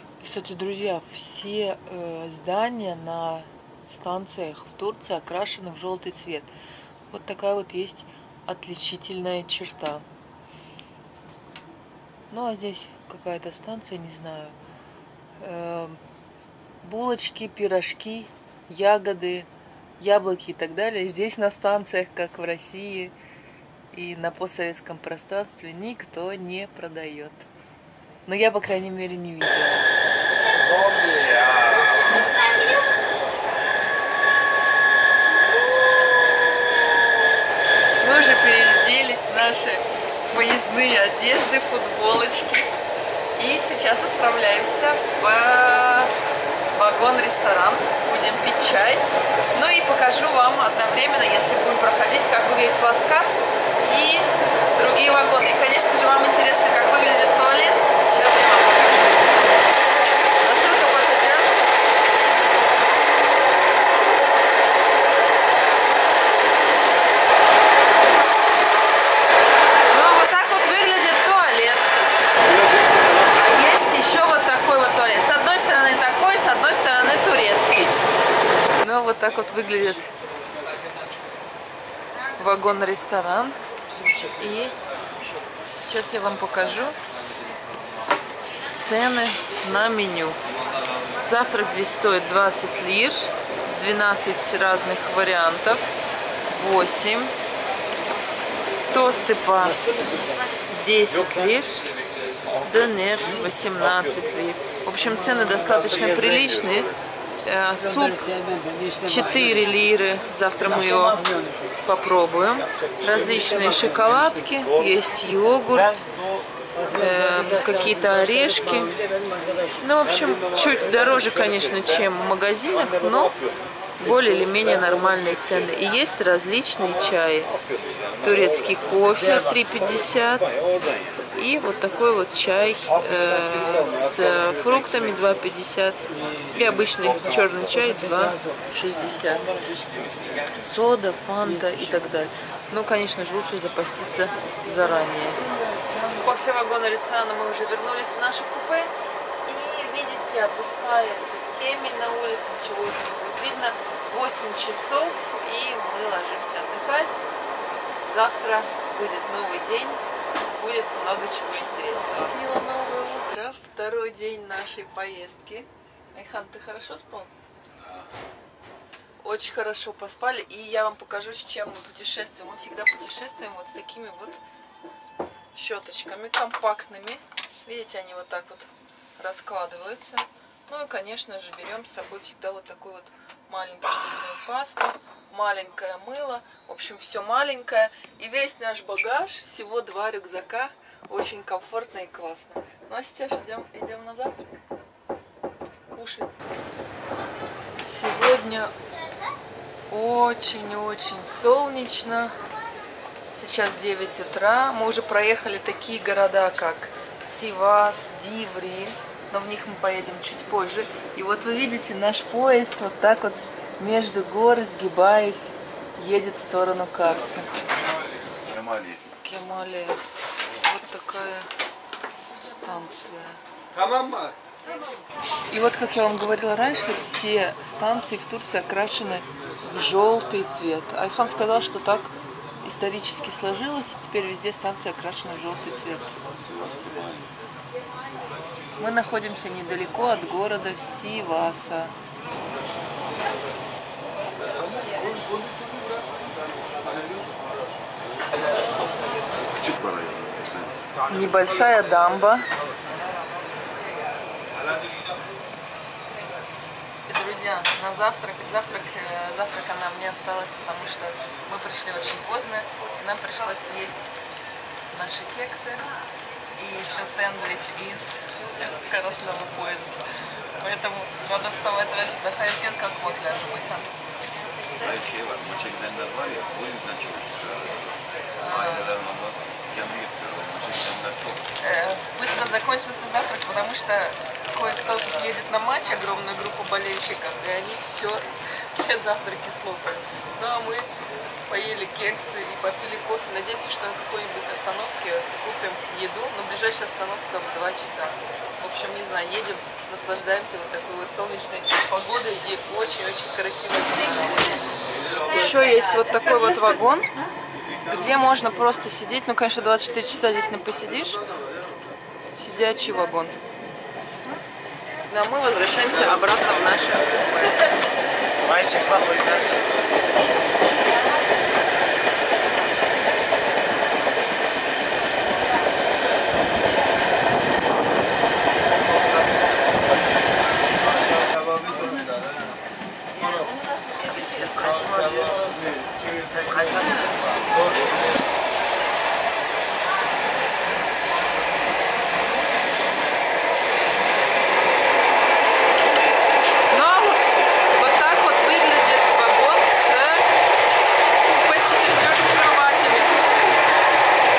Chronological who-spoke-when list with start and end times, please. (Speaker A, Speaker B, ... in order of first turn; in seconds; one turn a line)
Speaker A: 0.2-6.5
Speaker A: 7.1-10.0
Speaker A: 12.3-14.6
Speaker A: 15.4-16.0
Speaker A: 16.8-19.5
Speaker A: 20.0-23.1
Speaker A: 23.9-27.4
Speaker A: 28.2-29.9
Speaker B: 30.9-31.5
Speaker A: 38.0-42.7
Speaker A: 43.3-46.1
Speaker A: 46.7-59.4
Speaker A: 60.4-61.5
Speaker A: 69.9-71.9
Speaker A: 73.3-78.0
Speaker A: 78.8-80.1
Speaker A: 82.4-83.6
Speaker A: 84.3-84.7
Speaker A: 85.8-87.0
Speaker A: 88.7-90.4
Speaker A: 91.2-95.8
Speaker A: 96.5-97.3
Speaker A: 98.9-99.8
Speaker A: 100.7-101.8
Speaker A: 102.6-108.2
Speaker A: 109.0-111.2
Speaker A: 111.8-116.0
Speaker A: 116.9-119.0
Speaker A: 119.8-123.3
Speaker A: 124.0-127.5
Speaker A: 128.2-130.5
Speaker A: 131.3-139.5
Speaker A: 140.5-145.4
Speaker A: 146.0-148.9
Speaker A: 149.5-157.2
Speaker A: 158.1-160.0
Speaker A: 160.5-167.3
Speaker A: 169.2-174.4
Speaker A: 175.6-194.6
Speaker A: 195.9-196.3
Speaker A: 197.8-198.7
Speaker A: 199.9-202.3
Speaker A: 203.3-217.5
Speaker B: 218.5-219.0
Speaker A: 219.2-220.0
Speaker A: 220.6-221.5
Speaker A: 222.6-223.4
Speaker A: 225.5-236.1
Speaker B: 236.4-237.3
Speaker A: 238.8-241.9
Speaker B: 249.6-250.7
Speaker A: 251.1-252.5
Speaker A: 257.1-264.1
Speaker A: 264.9-265.8
Speaker A: 266.6-270.0
Speaker A: 270.6-273.9
Speaker B: 274.8-281.4
Speaker A: 278.4-278.8
Speaker A: 281.6-290.9
Speaker A: 291.5-304.6
Speaker A: 305.3-307.1
Speaker A: 307.9-311.2
Speaker A: 312.3-313.4
Speaker A: 315.1-317.7
Speaker C: 318.4-319.6
Speaker C: 334.0-335.4
Speaker C: 336.4-337.1
Speaker A: 346.7-350.2
Speaker A: 351.2-353.2